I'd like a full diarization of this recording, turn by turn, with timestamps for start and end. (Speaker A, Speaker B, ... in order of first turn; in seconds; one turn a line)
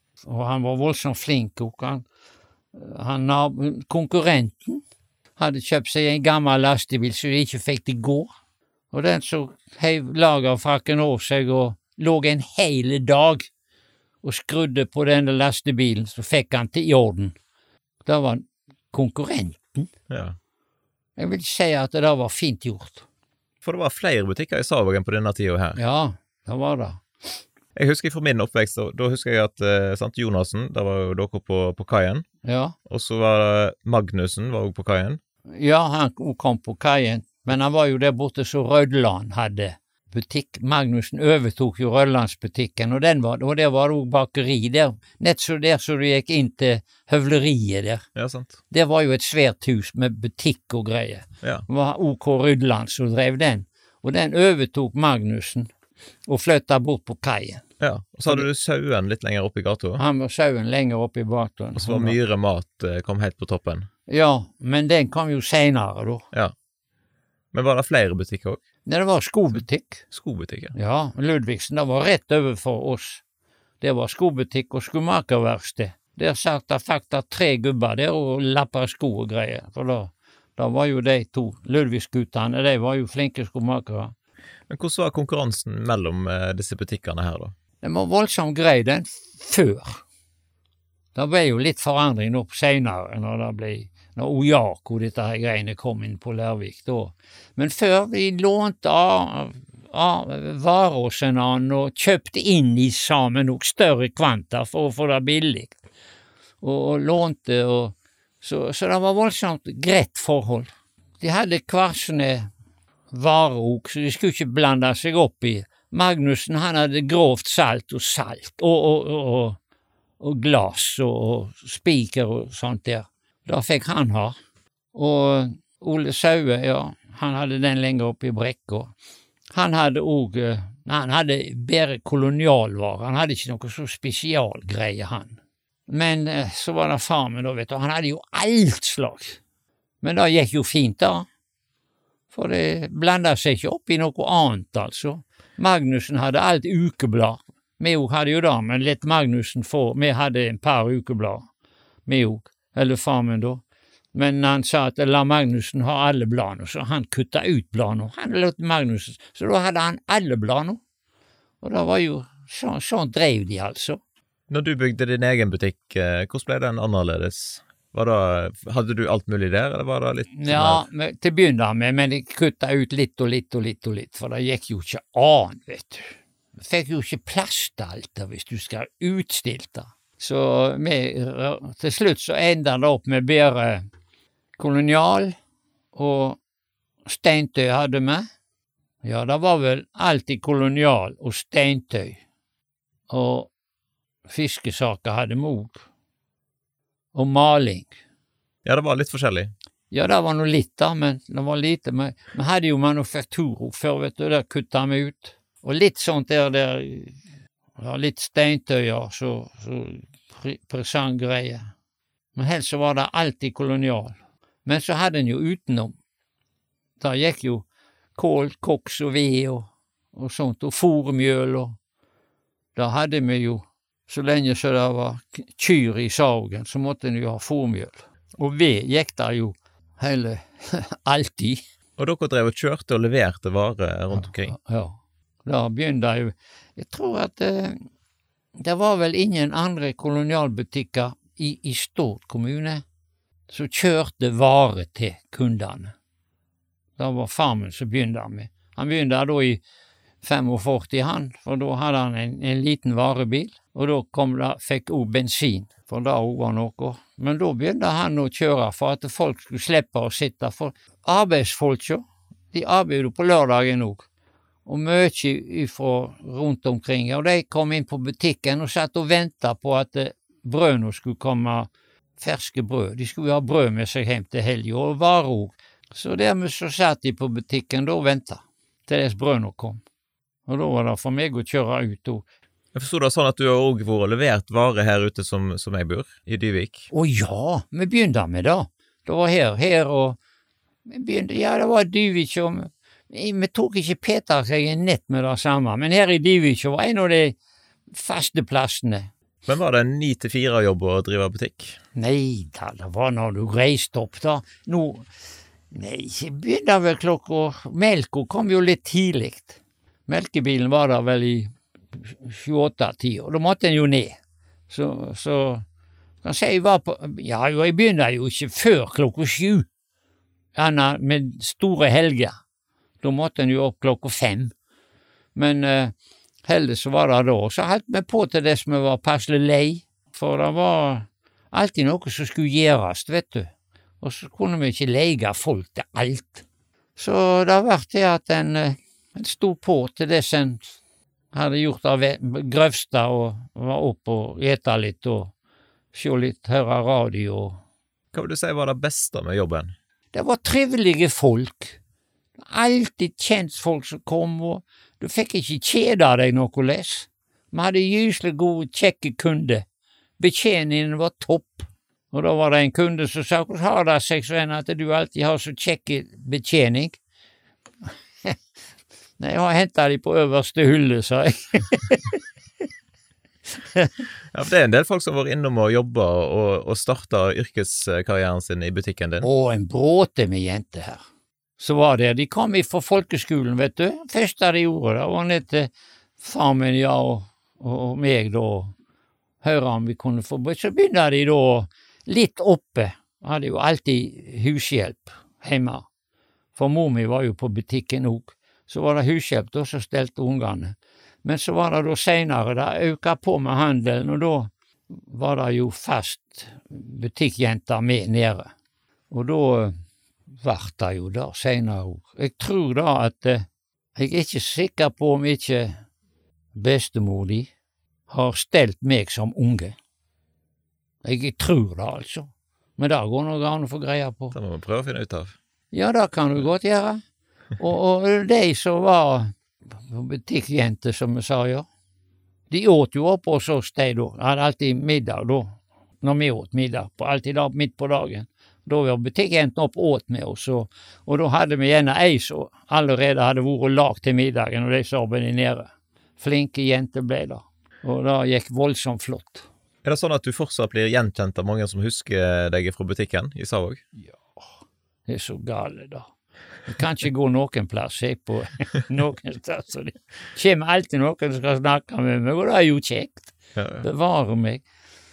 Speaker A: 0.2-2.0
Speaker A: 2.7-4.8
Speaker A: 5.4-8.3
Speaker A: 8.9-13.5
Speaker A: 14.2-17.3
Speaker A: 18.0-19.9
Speaker B: 20.1-20.4
Speaker A: 21.2-23.0
Speaker B: 23.6-25.8
Speaker A: 25.8-27.0
Speaker B: 27.7-32.2
Speaker A: 32.4-32.7
Speaker B: 32.9-35.2
Speaker A: 35.5-48.0
Speaker B: 48.1-48.5
Speaker A: 48.7-55.7
Speaker A: 56.3-57.6
Speaker B: 57.8-60.0
Speaker A: 60.0-62.1
Speaker B: 61.8-63.9
Speaker A: 64.1-66.2
Speaker B: 67.5-68.6
Speaker A: 68.8-70.0
Speaker B: 70.1-70.7
Speaker A: 70.7-73.2
Speaker A: 73.8-84.1
Speaker B: 84.7-87.5
Speaker A: 87.8-90.0
Speaker A: 91.1-105.8
Speaker A: 106.6-110.7
Speaker A: 111.2-112.5
Speaker A: 113.1-119.6
Speaker A: 120.2-124.3
Speaker A: 124.9-128.9
Speaker A: 129.5-139.4
Speaker A: 140.0-141.2
Speaker A: 142.3-151.5
Speaker A: 152.1-153.6
Speaker A: 154.1-160.8
Speaker A: 161.6-164.0
Speaker B: 164.5-170.8
Speaker A: 170.3-183.8
Speaker A: 184.6-185.3
Speaker A: 185.9-186.4
Speaker A: 187.1-188.2
Speaker A: 189.0-192.2
Speaker A: 193.1-193.5
Speaker A: 194.3-195.8
Speaker A: 197.1-197.9
Speaker B: 198.6-199.5
Speaker A: 199.9-207.2
Speaker A: 207.8-211.7
Speaker A: 212.3-215.9
Speaker A: 217.0-217.6
Speaker A: 218.2-221.8
Speaker A: 222.8-231.6
Speaker B: 232.0-234.6
Speaker A: 234.1-237.8
Speaker A: 238.6-242.8
Speaker A: 243.5-245.9
Speaker A: 247.0-249.6
Speaker A: 250.2-264.1
Speaker A: 264.6-279.8
Speaker A: 280.5-282.2
Speaker B: 282.7-286.9
Speaker A: 286.9-290.2
Speaker A: 290.9-297.4
Speaker A: 297.9-299.1
Speaker B: 299.4-301.8
Speaker A: 301.9-305.1
Speaker A: 305.7-314.2
Speaker A: 314.7-315.6
Speaker A: 316.2-319.6
Speaker A: 320.6-322.3
Speaker A: 323.0-324.5
Speaker A: 325.3-325.9
Speaker A: 326.4-333.5
Speaker A: 334.0-336.4
Speaker A: 336.9-340.6
Speaker A: 341.3-345.3
Speaker A: 345.9-347.6
Speaker B: 348.1-349.7
Speaker A: 350.1-351.8
Speaker A: 352.4-359.6
Speaker A: 360.2-367.0
Speaker A: 369.2-372.2
Speaker B: 374.3-379.3
Speaker A: 379.2-381.0
Speaker A: 381.6-388.7
Speaker A: 389.4-395.9
Speaker A: 396.5-408.5
Speaker A: 409.1-409.7
Speaker A: 410.4-415.8
Speaker A: 416.5-417.5
Speaker A: 418.1-419.8
Speaker A: 421.0-424.4
Speaker B: 424.3-425.4
Speaker A: 425.7-427.0
Speaker A: 427.6-431.7
Speaker A: 432.5-449.4
Speaker B: 449.8-453.8
Speaker A: 455.1-456.1
Speaker A: 456.6-464.6
Speaker B: 463.6-463.8